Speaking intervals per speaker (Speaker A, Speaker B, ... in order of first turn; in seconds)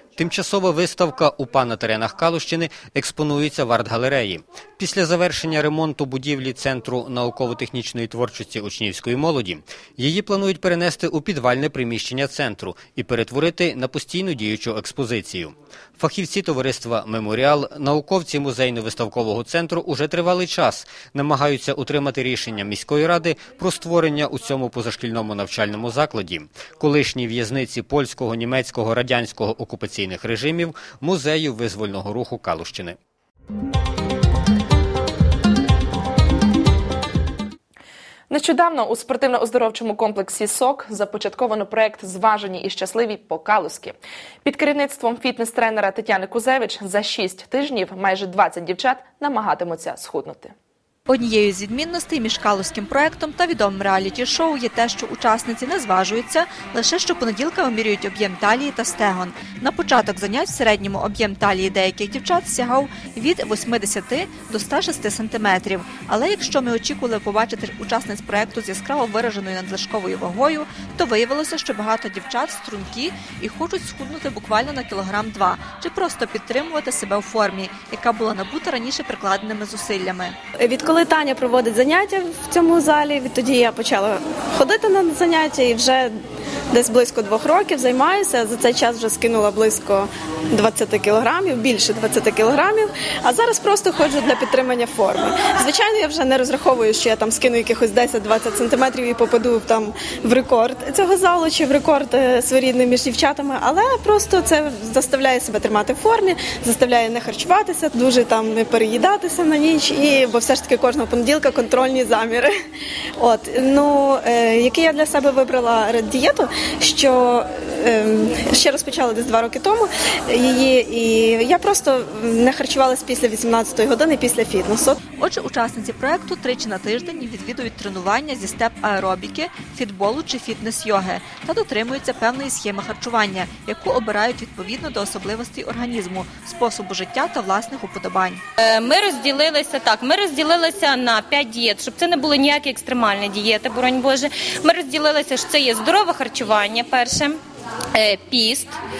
Speaker A: 0.2-33.0
Speaker B: 38.3-50.5
Speaker C: 51.1-80.4, 125.1-138.4
Speaker D: 80.6-86.2, 86.7-112.5, 113.2-125.0
Speaker E: 138.6-147.4, 147.9-148.8